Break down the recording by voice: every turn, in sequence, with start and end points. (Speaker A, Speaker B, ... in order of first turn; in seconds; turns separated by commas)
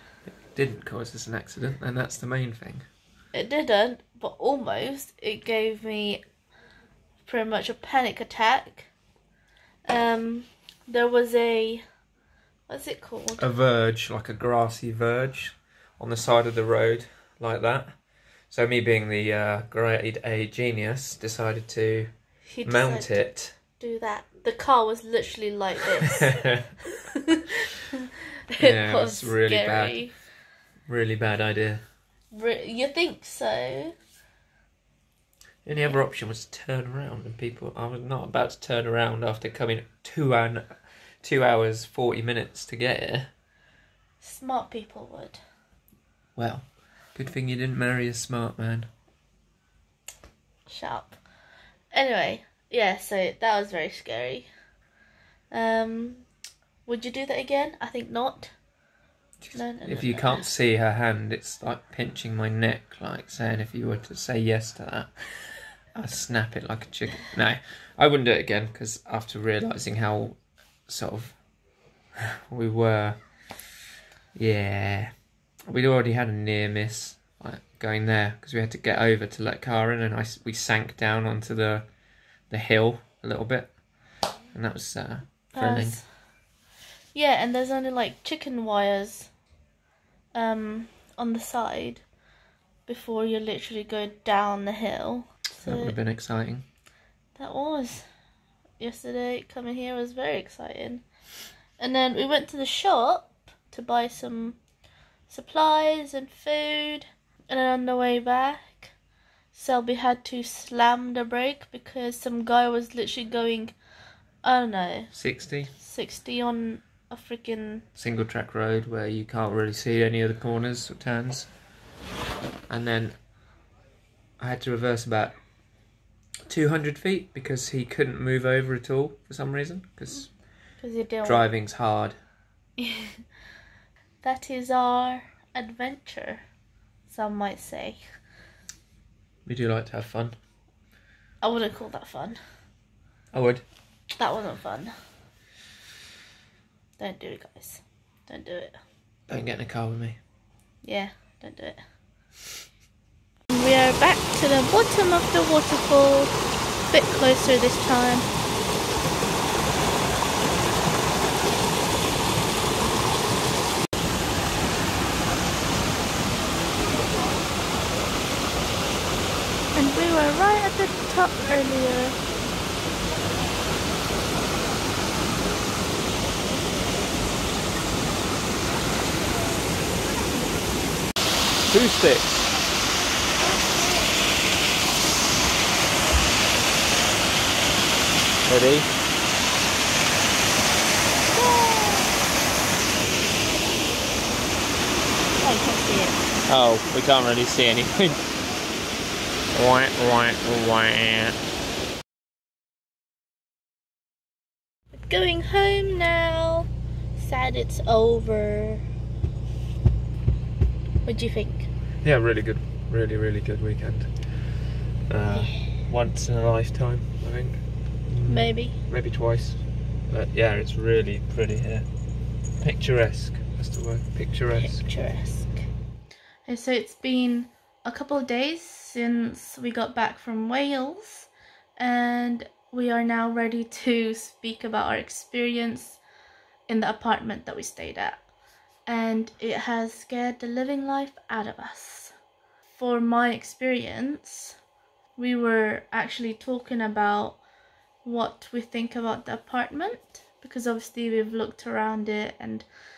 Speaker A: 0.3-2.8, Speaker B: 3.3-6.2, Speaker B: 7.2-8.9, Speaker B: 9.8-11.8, Speaker B: 12.7-13.5, Speaker A: 13.4-22.1, Speaker B: 22.4-26.6, Speaker A: 22.6-23.6, Speaker B: 28.5-30.2, Speaker A: 28.6-30.2, Speaker A: 30.9-31.8, Speaker B: 32.3-33.9, Speaker A: 35.6-43.3, Speaker B: 44.2-45.4, Speaker A: 46.4-48.9, Speaker B: 50.6-51.2, Speaker B: 51.9-54.5, Speaker B: 55.5-56.2, Speaker B: 56.9-58.5, Speaker A: 59.4-71.5, Speaker B: 59.5-60.5, Speaker A: 72.2-73.6, Speaker A: 74.3-81.9, Speaker A: 82.5-83.8, Speaker A: 84.5-86.0, Speaker B: 85.5-86.1, Speaker B: 87.1-89.3, Speaker B: 90.3-92.0, Speaker B: 92.9-96.0, Speaker A: 95.6-96.7, Speaker B: 97.3-98.0, Speaker B: 98.8-101.0, Speaker B: 101.8-104.6, Speaker B: 105.3-108.9, Speaker B: 109.5-113.7, Speaker B: 114.4-117.8, Speaker A: 115.1-115.7, Speaker A: 118.0-121.6, Speaker A: 122.7-123.2, Speaker A: 124.4-125.4, Speaker A: 126.5-132.2, Speaker B: 130.8-131.5, Speaker B: 132.8-133.1, Speaker B: 134.2-136.4, Speaker B: 137.1-138.0, Speaker A: 139.4-140.3, Speaker B: 141.4-142.4, Speaker A: 143.3-143.6, Speaker B: 144.2-144.9, Speaker B: 147.0-148.8, Speaker A: 149.3-150.2, Speaker B: 150.8-151.8, Speaker B: 153.5-156.3, Speaker B: 156.9-158.3, Speaker B: 169.7-172.2, Speaker A: 181.6-182.5, Speaker A: 188.4-188.9, Speaker B: 191.3-192.1, Speaker B: 195.4-196.2, Speaker A: 196.4-198.2, Speaker A: 199.5-201.3, Speaker B: 204.9-208.8, Speaker B: 211.0-211.7, Speaker A: 212.0-221.9, Speaker B: 215.3-215.7, Speaker B: 218.2-218.8, Speaker A: 222.6-224.9, Speaker B: 224.6-225.7, Speaker B: 226.4-236.0, Speaker B: 236.7-238.3, Speaker B: 238.8-242.1, Speaker B: 242.7-244.6, Speaker B: 245.2-247.4, Speaker B: 248.0-252.7